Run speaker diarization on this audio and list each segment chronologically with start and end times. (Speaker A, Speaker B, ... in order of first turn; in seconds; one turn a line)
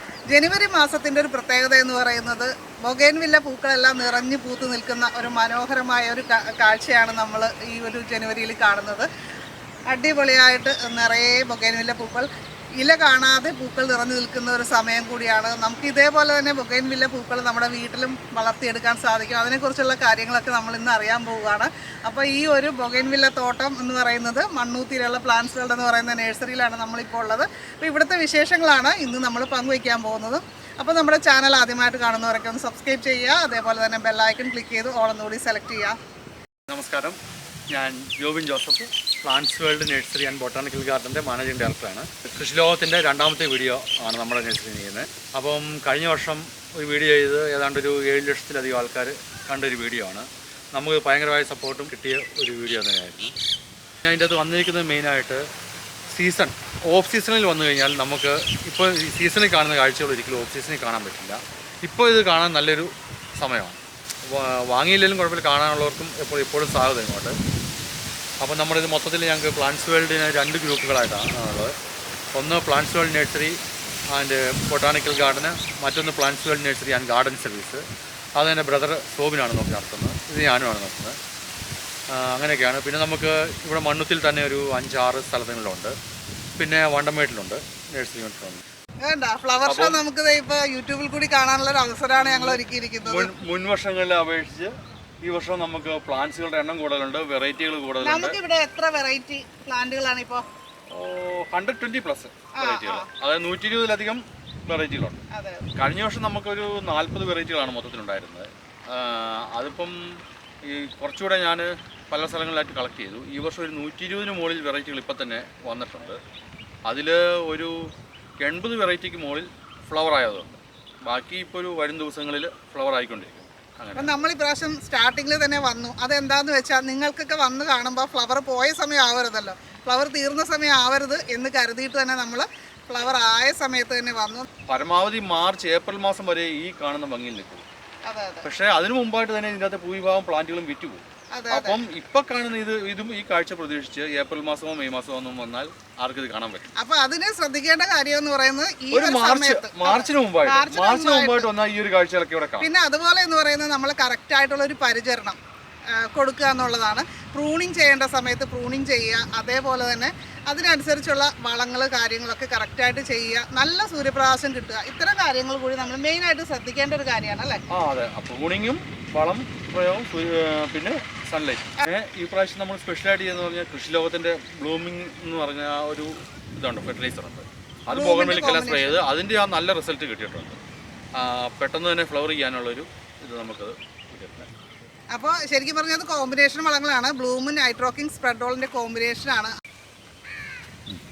Speaker A: 0.3-9.1
Speaker A: 9.9-12.3
Speaker A: 12.8-36.0
Speaker B: 36.7-37.2
Speaker B: 37.7-53.3
Speaker B: 54.0-55.4
Speaker B: 56.1-67.3
Speaker B: 68.4-71.7
Speaker B: 72.3-73.6
Speaker B: 74.1-77.8
Speaker B: 78.4-81.2
Speaker B: 82.1-85.9
Speaker B: 86.6-88.6
Speaker A: 89.0-93.3
Speaker B: 89.6-90.0
Speaker B: 92.2-98.4
Speaker A: 98.0-100.4
Speaker B: 100.9-105.2
Speaker A: 102.5-103.1
Speaker A: 105.3-105.7
Speaker B: 105.8-116.2
Speaker B: 116.8-117.9
Speaker B: 118.4-124.1
Speaker A: 123.9-134.4
Speaker B: 134.7-137.7
Speaker A: 138.1-138.5
Speaker B: 138.4-146.7
Speaker A: 141.3-141.8
Speaker A: 146.8-151.5
Speaker B: 148.9-152.7
Speaker A: 152.6-155.4
Speaker A: 156.0-167.6
Speaker B: 167.7-180.6
Speaker A: 177.9-179.0
Speaker B: 181.2-184.5
Speaker A: 185.1-189.5